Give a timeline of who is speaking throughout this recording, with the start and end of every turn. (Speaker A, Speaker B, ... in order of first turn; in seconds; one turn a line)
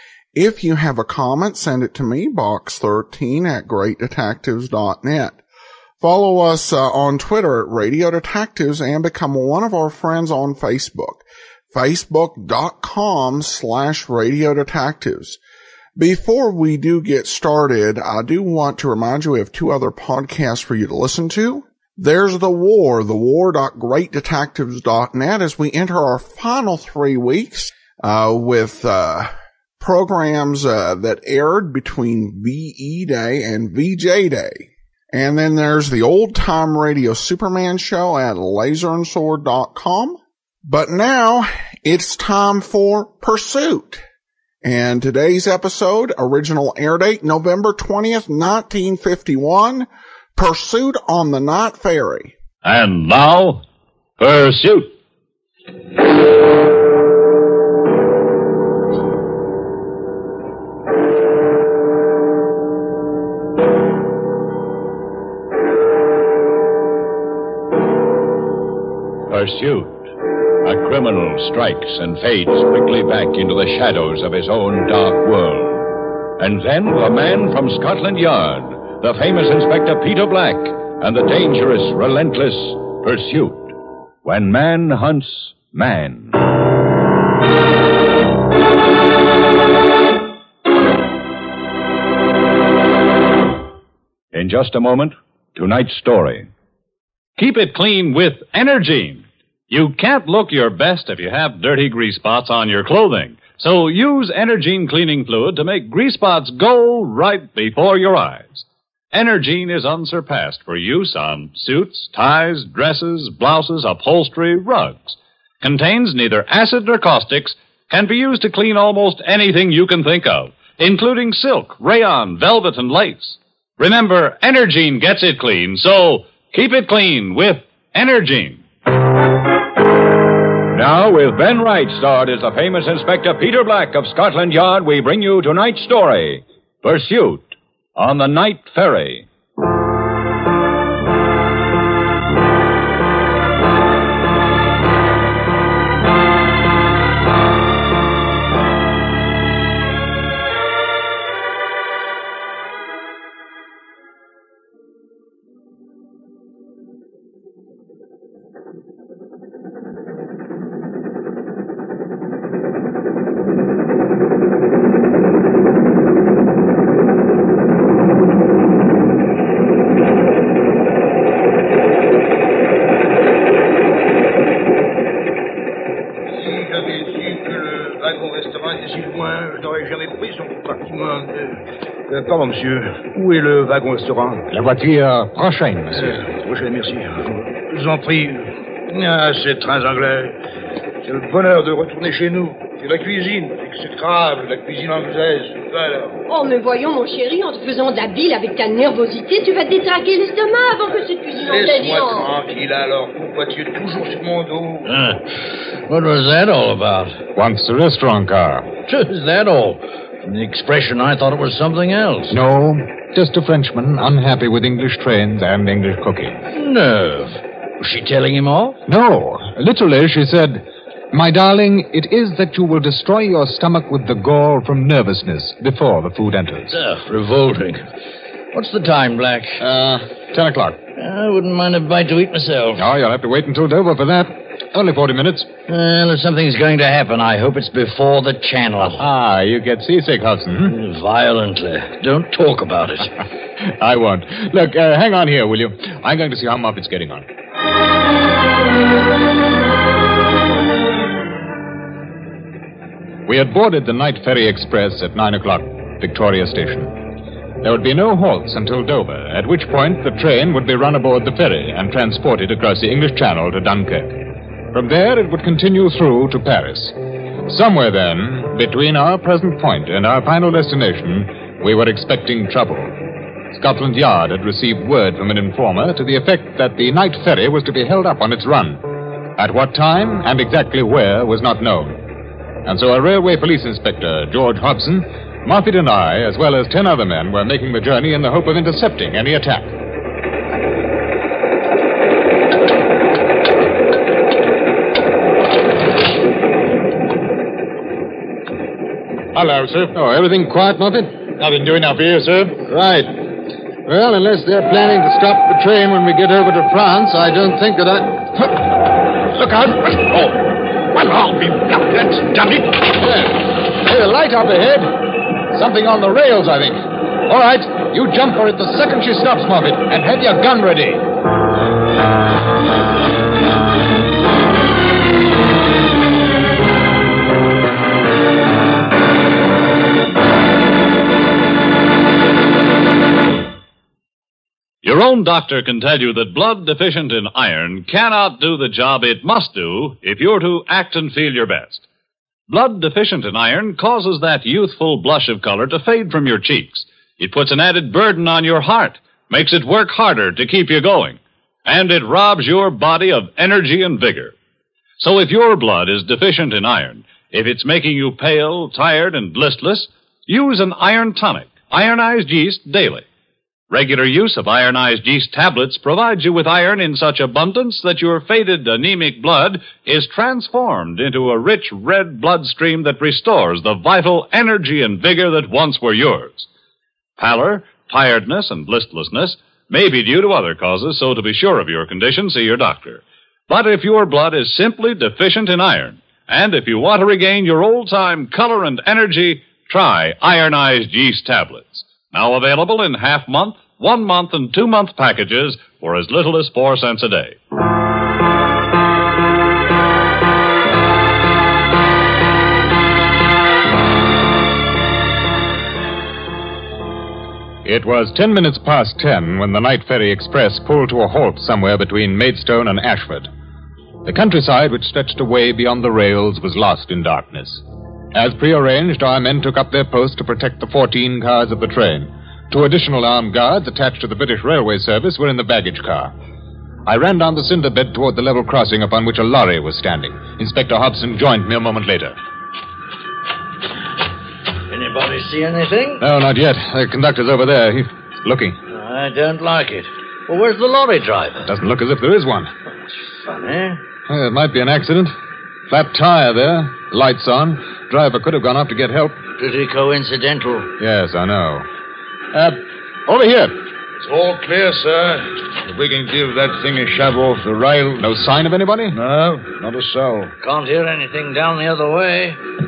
Speaker A: 0.3-5.4
Speaker A: 6.0-15.4
Speaker A: 16.0-44.0
Speaker A: 44.6-52.3
Speaker B: 52.6-53.6
Speaker B: 54.2-54.9
Speaker C: 69.3-70.0
Speaker C: 70.6-86.4
Speaker C: 94.3-96.5
Speaker B: 97.4-128.6
Speaker C: 130.7-139.3
Speaker D: 176.3-184.5
Speaker E: 184.5-186.2
Speaker D: 185.9-190.3
Speaker D: 191.0-196.2
Speaker F: 196.3-202.3
Speaker D: 201.3-204.9
Speaker G: 204.8-205.2
Speaker G: 205.9-207.2
Speaker E: 207.3-208.7
Speaker G: 208.9-212.4
Speaker E: 212.3-216.4
Speaker G: 216.5-218.8
Speaker E: 218.8-226.7
Speaker G: 226.7-227.8
Speaker G: 228.5-229.6
Speaker E: 229.6-230.8
Speaker G: 231.0-232.9
Speaker E: 232.8-235.5
Speaker G: 235.7-239.1
Speaker E: 238.9-240.7
Speaker G: 240.6-243.1
Speaker E: 243.8-247.2
Speaker E: 253.3-256.9
Speaker E: 257.6-272.9
Speaker E: 273.5-278.8
Speaker E: 279.4-282.0
Speaker E: 282.6-289.7
Speaker H: 299.3-299.9
Speaker E: 299.9-301.2
Speaker H: 301.3-302.6
Speaker E: 302.6-303.2
Speaker E: 303.9-308.6
Speaker E: 309.4-321.1
Speaker B: 334.8-341.8
Speaker B: 342.5-354.3
Speaker B: 355.0-363.1
Speaker B: 363.7-376.5
Speaker B: 377.2-397.4
Speaker E: 407.6-413.3
Speaker E: 414.0-426.1
Speaker E: 426.8-432.1
Speaker G: 434.7-436.0
Speaker E: 436.0-438.6
Speaker G: 438.7-441.5
Speaker E: 441.4-442.5
Speaker G: 442.9-443.8
Speaker E: 444.1-445.1
Speaker E: 445.7-449.2
Speaker G: 449.4-450.7
Speaker E: 450.8-451.7
Speaker E: 452.3-453.6
Speaker D: 454.0-458.0
Speaker E: 458.0-459.0
Speaker D: 458.9-460.3
Speaker G: 460.4-462.4